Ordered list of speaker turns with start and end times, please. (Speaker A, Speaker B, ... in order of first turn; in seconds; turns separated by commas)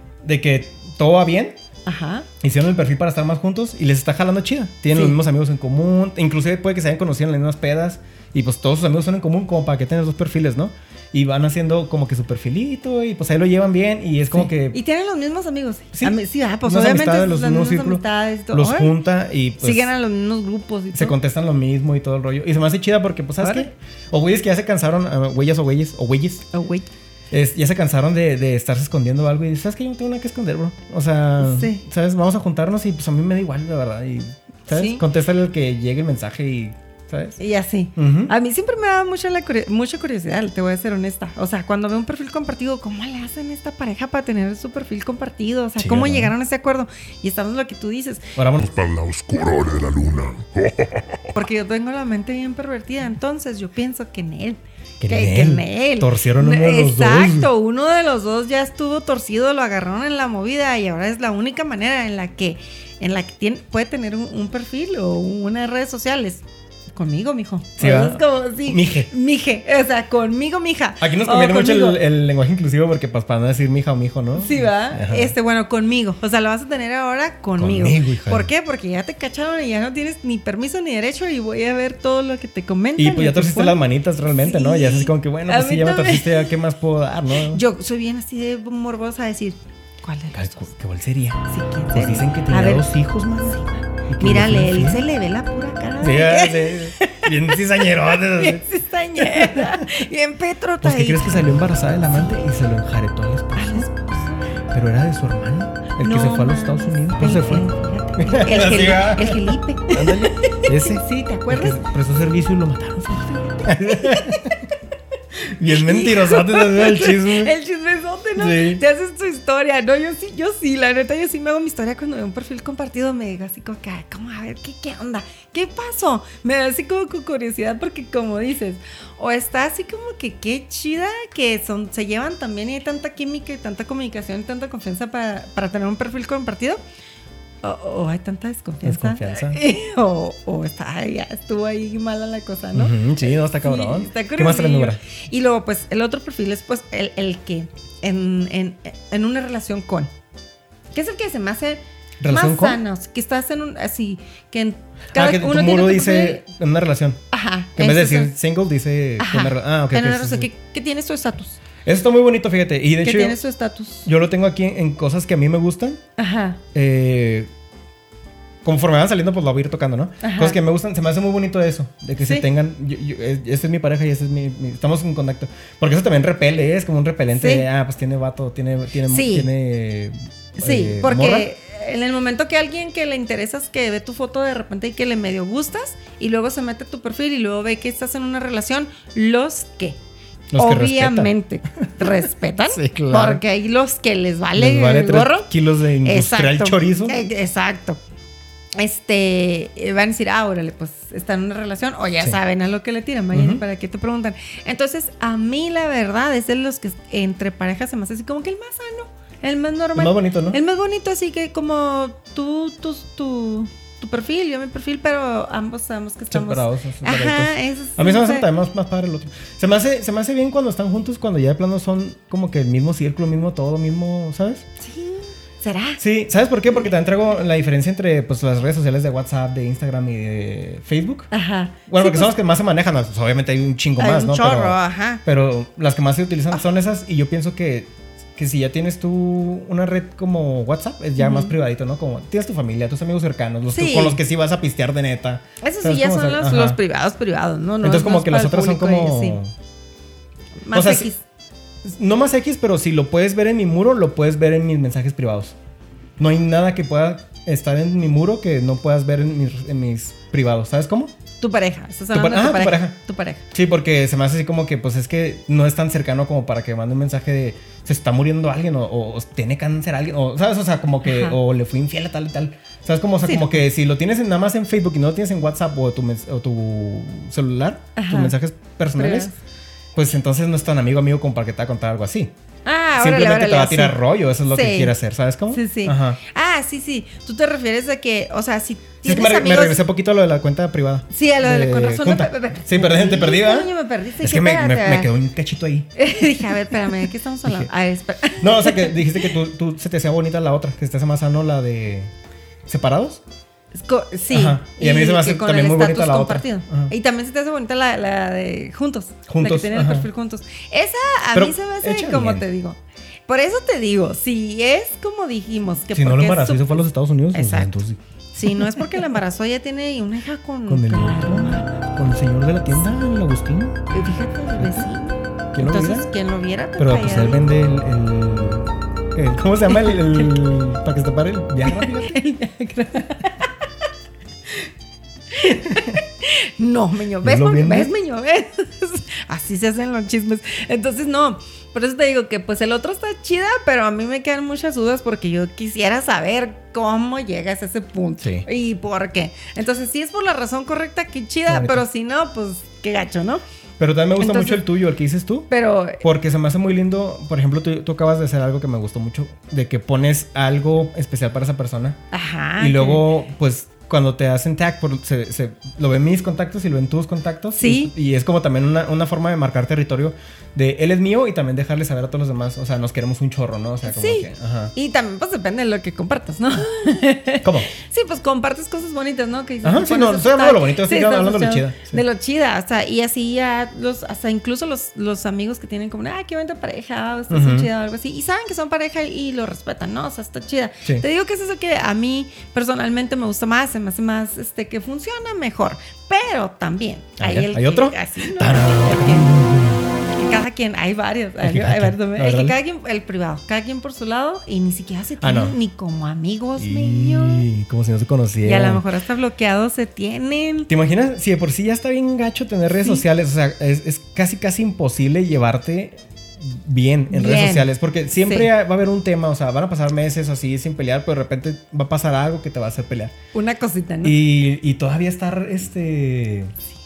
Speaker A: 0.2-1.6, Speaker B: 1.9-2.3, Speaker A: 2.4-14.8, Speaker B: 4.9-5.2, Speaker B: 14.3-19.0, Speaker A: 15.9-19.9, Speaker B: 19.6-21.2, Speaker A: 20.9-26.5, Speaker B: 23.4-23.7, Speaker B: 26.5-26.9, Speaker A: 27.3-37.4, Speaker B: 31.4-31.8, Speaker B: 34.7-35.0, Speaker B: 37.4-48.3, Speaker A: 38.0-38.3, Speaker A: 45.8-46.3, Speaker A: 48.4-48.7, Speaker C: 48.6-51.2, Speaker B: 51.3-72.0, Speaker A: 55.0-57.5, Speaker A: 67.8-69.1, Speaker A: 71.0-75.3, Speaker B: 74.4-86.5, Speaker A: 77.6-78.5, Speaker A: 83.0-87.6, Speaker B: 87.5-90.7, Speaker A: 90.3-95.0, Speaker B: 91.5-97.6, Speaker A: 96.0-98.7, Speaker B: 98.1-102.5, Speaker A: 99.2-100.0, Speaker A: 100.8-103.9, Speaker B: 103.6-104.5, Speaker A: 104.7-114.6, Speaker B: 106.0-111.8, Speaker B: 113.6-114.6, Speaker A: 115.5-117.5, Speaker B: 115.7-136.8, Speaker A: 118.4-118.8, Speaker B: 137.6-150.1, Speaker A: 138.8-139.6, Speaker A: 142.7-145.0, Speaker B: 150.9-156.4, Speaker A: 152.2-152.8, Speaker A: 155.1-157.2, Speaker B: 157.3-158.3, Speaker A: 157.8-160.5, Speaker B: 159.2-161.6, Speaker A: 161.8-163.4, Speaker B: 163.0-164.1, Speaker A: 164.1-166.0, Speaker B: 166.2-166.6, Speaker A: 166.7-167.5, Speaker A: 168.6-181.5, Speaker B: 170.2-170.6, Speaker B: 177.3-177.7, Speaker B: 179.1-179.5, Speaker B: 180.6-190.0, Speaker A: 190.5-192.1, Speaker B: 190.6-195.5, Speaker A: 192.7-193.4, Speaker A: 194.6-197.2, Speaker B: 196.0-198.0, Speaker B: 198.8-218.5, Speaker A: 203.3-203.6, Speaker A: 210.0-210.6, Speaker A: 216.3-224.7, Speaker B: 224.8-226.0, Speaker A: 226.0-231.3, Speaker B: 231.3-232.3, Speaker A: 231.9-246.8, Speaker B: 234.0-235.2, Speaker B: 241.2-241.6, Speaker B: 243.7-244.2, Speaker B: 245.6-249.4, Speaker A: 247.8-249.5, Speaker B: 250.7-251.2, Speaker A: 250.7-251.1, Speaker A: 251.8-255.6, Speaker A: 256.2-261.1, Speaker B: 261.4-263.5, Speaker A: 262.1-263.0, Speaker A: 263.5-279.3, Speaker B: 271.1-271.4, Speaker B: 273.2-273.6, Speaker B: 278.0-278.3, Speaker B: 279.0-279.4, Speaker A: 279.9-282.3, Speaker B: 282.6-284.9, Speaker A: 283.0-286.2, Speaker B: 285.5-289.8, Speaker A: 289.0-297.7, Speaker B: 291.1-295.1, Speaker B: 296.0-299.3, Speaker A: 298.4-302.1, Speaker A: 302.7-303.2, Speaker B: 303.8-317.8, Speaker A: 304.3-306.9, Speaker A: 309.3-310.1, Speaker A: 311.3-312.4, Speaker A: 315.9-318.0, Speaker B: 318.3-321.8, Speaker A: 318.5-318.8, Speaker A: 320.7-323.9, Speaker B: 323.9-327.4, Speaker A: 324.6-324.9, Speaker A: 325.5-326.1, Speaker A: 326.8-332.2, Speaker B: 329.7-330.0, Speaker B: 331.6-333.5, Speaker B: 335.3-353.4, Speaker A: 337.2-337.9, Speaker A: 348.2-348.5, Speaker A: 351.5-351.9, Speaker A: 353.8-362.0, Speaker B: 354.2-354.6, Speaker B: 355.5-356.0, Speaker B: 362.1-363.1, Speaker A: 362.6-374.7, Speaker B: 367.6-367.9, Speaker B: 373.9-399.3, Speaker A: 377.4-377.7, Speaker A: 379.6-382.0, Speaker A: 387.3-387.7, Speaker A: 397.2-399.8, Speaker B: 400.2-407.5, Speaker A: 401.4-402.6, Speaker A: 405.2-405.6, Speaker A: 406.6-408.8, Speaker B: 408.4-410.7, Speaker A: 410.7-423.1, Speaker B: 412.8-413.0, Speaker B: 417.1-418.5, Speaker B: 423.3-424.2, Speaker A: 424.0-426.5